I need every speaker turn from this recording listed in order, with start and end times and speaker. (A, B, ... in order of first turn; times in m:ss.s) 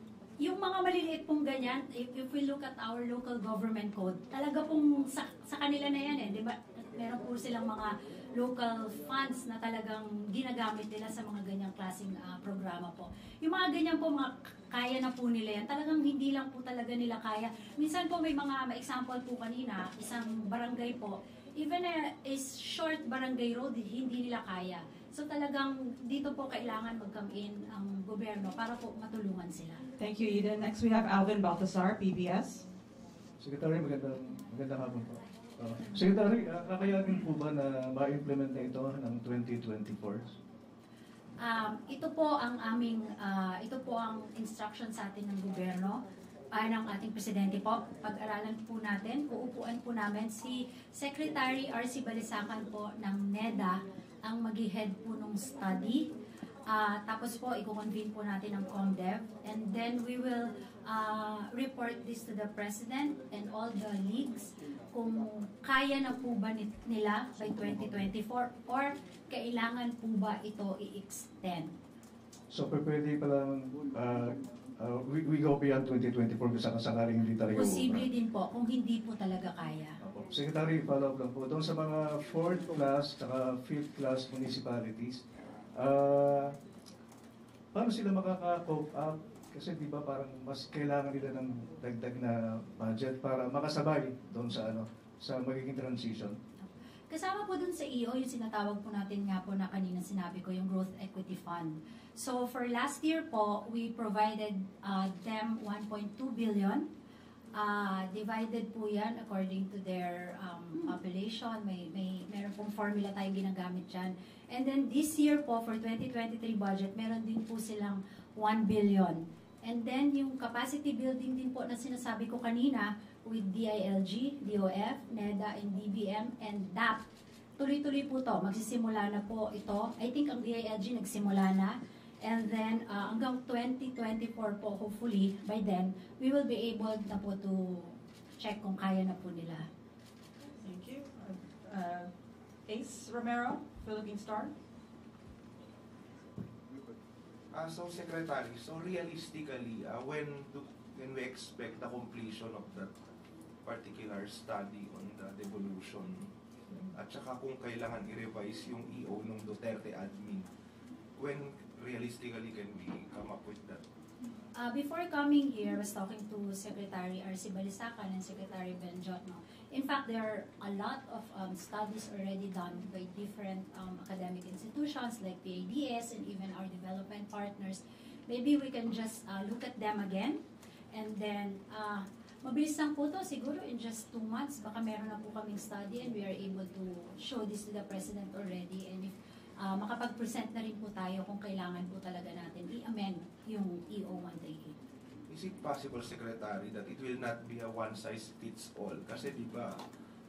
0:00.4-0:29.8 A
0:30.0-0:32.7 B
0:33.4-0:40.4 C
0:41.4-0:46.0 A
0:46.5-0:56.0 A
0:56.7-1:11.7 A
1:12.5-1:18.1 C
1:17.5-1:20.0 A
1:20.0-1:25.2 C
1:25.8-1:26.6 C
1:27.8-1:36.4 C
1:36.6-1:46.8 A
1:47.5-2:07.1 A
2:07.6-2:19.7 A
2:20.4-2:22.1 B
2:22.7-2:24.5 B
2:27.5-2:32.9 D
2:33.6-2:36.2 D
2:37.0-2:40.4 D
2:41.2-2:43.8 D
2:44.6-3:00.4 A
3:00.9-3:14.8 A
3:15.3-3:19.8 D